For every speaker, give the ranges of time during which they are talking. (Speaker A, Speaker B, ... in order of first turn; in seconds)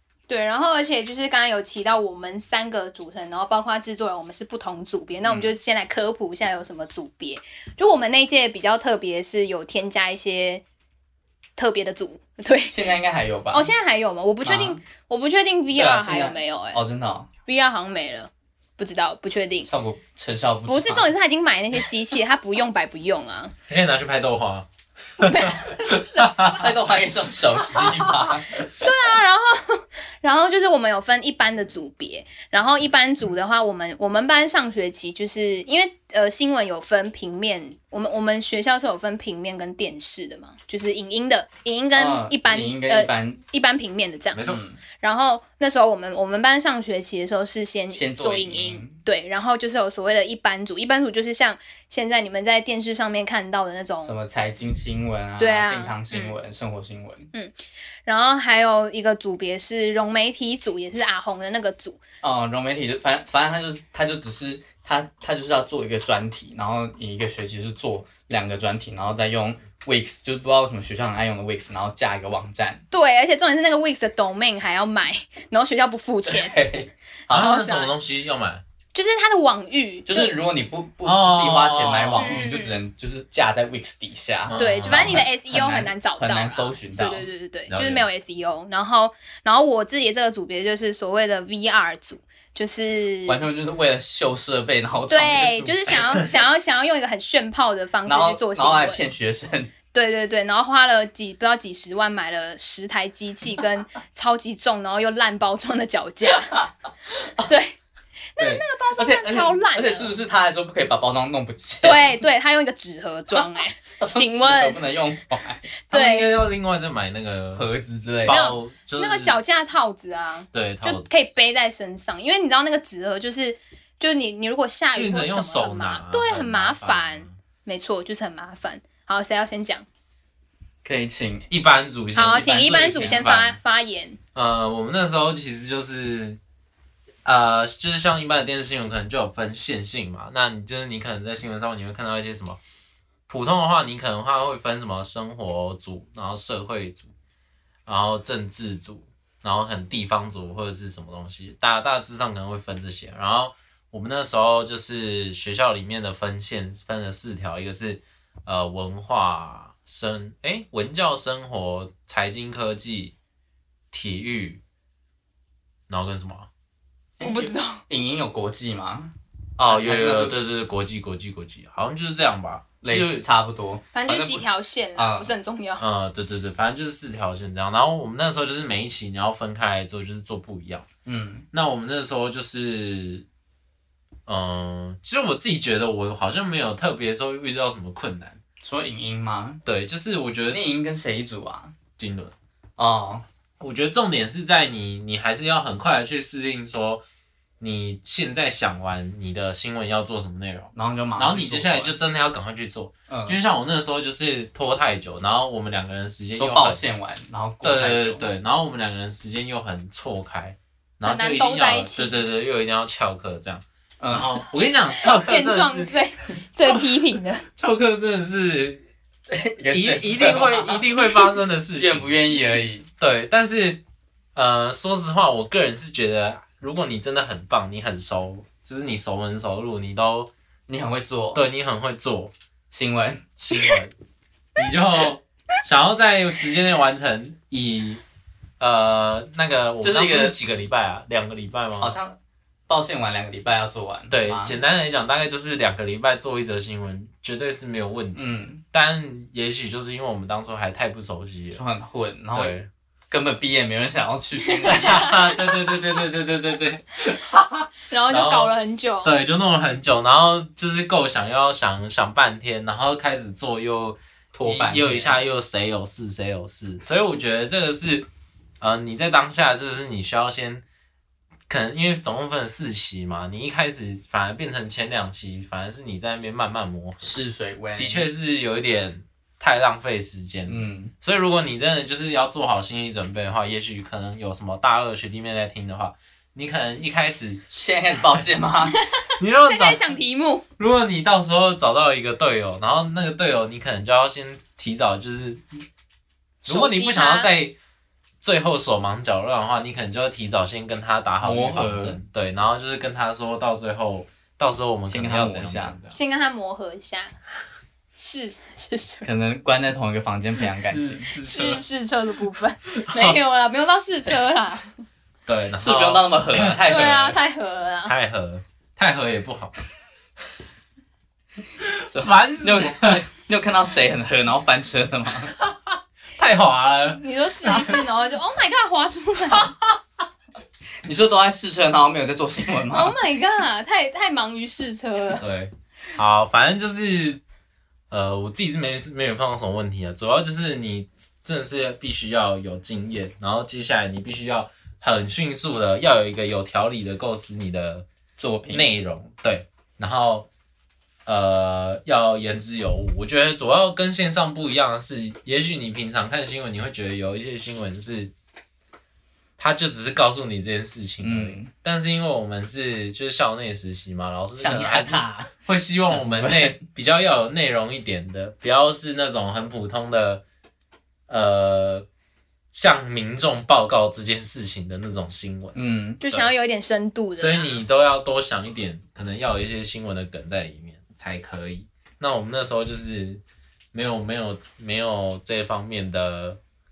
Speaker A: 0.3-10.6, 11.6-12.8, 13.5-16.8, 17.5-19.7, 20.7-23.5, 25.2-26.3, 28.8-54.1, 55.4-56.4, 58.1-62.0, 72.9-76.6, 77.3-77.9, 78.9-80.3, 82.2-82.8, 84.6-93.4, 95.1-99.0, 99.9-106.6, 107.5-107.8, 108.4-110.2, 111.8-114.8, 115.9-116.3, 118.3-129.8, 132.2-134.2, 167.2-167.8, 173.9-175.8, 211.0-212.2, 215.0-217.5, 254.7-255.2, 257.9-259.1, 288.7-290.5, 296.4-297.3, 305.9-307.1, 308.0-309.1, 311.2-314.7, 316.7-317.9, 327.0-329.5, 332.7-335.2, 376.0-377.6
Speaker B: 5.2-5.5, 12.7-13.7, 14.4-14.8, 15.8-17.3, 19.7-21.1, 26.5-28.6, 42.0-43.4, 44.5-44.8, 47.9-49.0, 54.0-57.3, 62.2-72.8, 76.2-77.5, 80.1-87.3, 93.2-95.8, 98.1-99.7, 106.3-107.5, 108.4-112.2, 114.0-115.7, 117.5-118.4, 130.8-131.5, 167.2-169.1, 169.7-170.4, 172.8-174.4, 175.0-175.3, 181.1-181.5, 188.6-189.6, 190.5-191.7, 192.8-193.2, 200.8-201.9, 203.1-203.4, 206.4-208.2, 214.0-214.4, 219.3-221.0, 221.8-222.9, 230.7-231.4, 232.7-233.8, 239.8-240.4, 241.8-242.2, 242.7-244.6, 248.2-248.6, 251.5-252.6, 253.1-255.2, 264.3-265.2, 277.0-278.1, 280.5-280.9, 287.5-288.8, 301.2-302.0, 304.9-305.8, 309.1-311.1, 315.6-316.8, 321.9-325.3, 330.9-333.0, 348.2-348.7, 361.0-361.5, 364.4-365.3, 365.9-366.6, 375.6-376.0
Speaker C: 23.7-24.7, 25.2-26.7, 44.3-44.6, 77.3-78.6, 81.0-82.4, 84.5-85.2, 87.7-88.1, 115.9-117.7, 118.2-119.4, 120.5-121.1, 124.9-127.3, 131.5-133.6, 134.3-136.4, 137.2-142.6, 143.3-147.1, 147.9-163.1, 163.9-164.6, 165.9-166.5, 169.6-173.2, 175.8-180.9, 181.5-183.2, 184.2-188.4, 189.7-190.6, 192.0-192.3, 193.6-197.0, 197.6-206.8, 207.6-215.9, 217.6-218.9, 219.7-222.1, 223.0-223.8, 224.3-230.3, 231.3-232.3, 233.4-233.9, 234.6-238.0, 238.6-241.9, 244.1-251.6, 252.3-252.7, 254.7-258.5, 259.0-268.1, 268.6-270.6, 271.5-277.1, 277.8-287.4, 289.2-289.9, 290.6-295.4, 296.4-297.6, 298.2-306.0, 310.5-311.6, 312.7-313.2, 315.3-317.2, 317.9-319.6, 321.6-323.0, 325.4-327.8, 335.2-337.2, 337.9-347.9, 348.5-350.3, 351.1-358.1, 359.4-370.2, 371.1-371.9, 372.5-375.6, 377.2-386.4